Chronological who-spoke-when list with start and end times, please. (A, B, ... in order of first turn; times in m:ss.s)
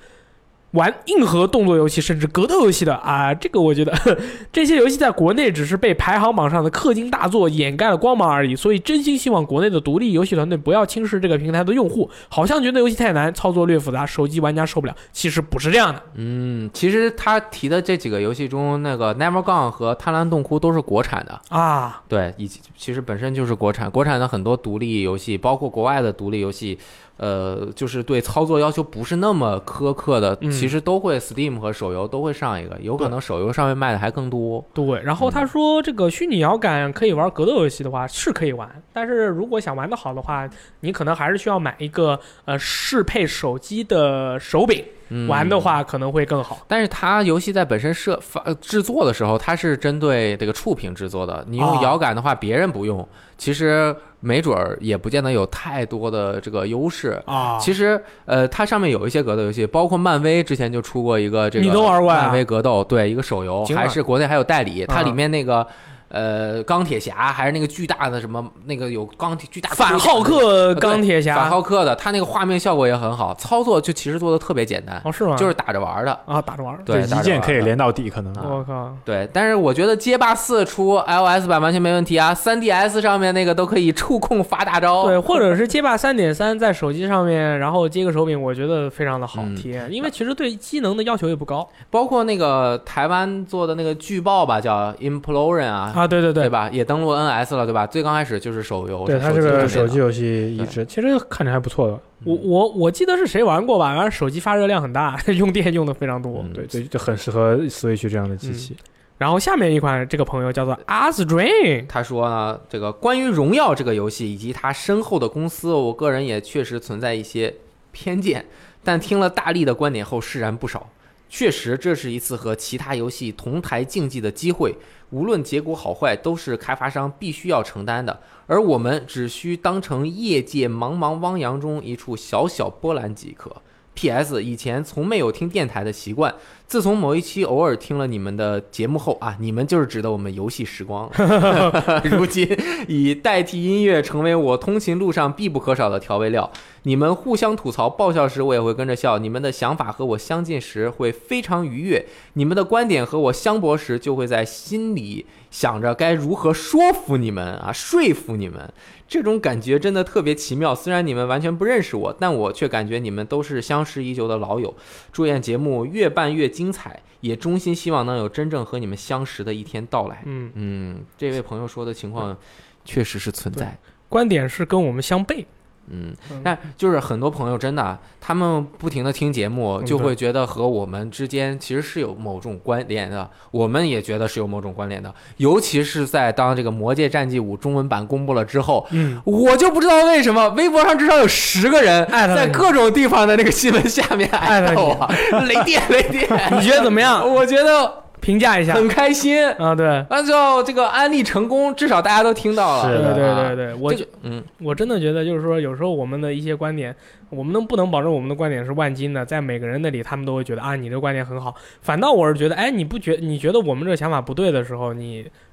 0:00.7-0:16.0 A
0:16.1-0:21.4 B
0:21.5-0:22.0 A
0:22.1-0:34.7 B
0:30.4-0:30.7 A
0:34.8-0:46.6 A
0:35.2-0:35.5 B
0:45.1-0:45.8 B
0:46.7-1:16.2 B
0:51.6-0:52.0 A
0:57.3-0:57.7 A
1:01.6-1:02.4 A
1:03.6-1:04.0 A
1:04.9-1:05.2 A
1:09.7-1:11.6 A
1:15.0-1:15.5 A
1:16.3-1:16.9 A
1:16.9-1:17.7 B
1:16.9-1:18.4 C
1:18.3-1:25.4 B
1:18.4-1:19.0 A
1:25.0-1:31.7 A
1:29.3-1:29.7 B
1:31.9-1:40.0 B
1:35.9-1:36.5 A
1:39.1-1:42.2 C
1:39.5-1:39.8 A
1:42.2-1:46.5 A
1:46.5-1:48.8 C
1:48.4-1:51.9 A
1:51.9-2:53.8 B
2:21.2-2:21.7 A
2:50.2-2:50.5 A
2:53.6-2:55.5 A
2:55.9-3:18.1 B
2:59.8-3:00.1 A
3:08.9-3:09.2 A
3:12.1-3:12.7 A
3:14.4-3:15.4 A
3:16.5-3:17.3 A
3:18.2-3:18.9 A
3:18.7-3:24.5 B
3:19.6-3:20.1 A
3:22.7-3:23.2 C
3:22.9-3:24.1 A
3:24.6-3:35.3 A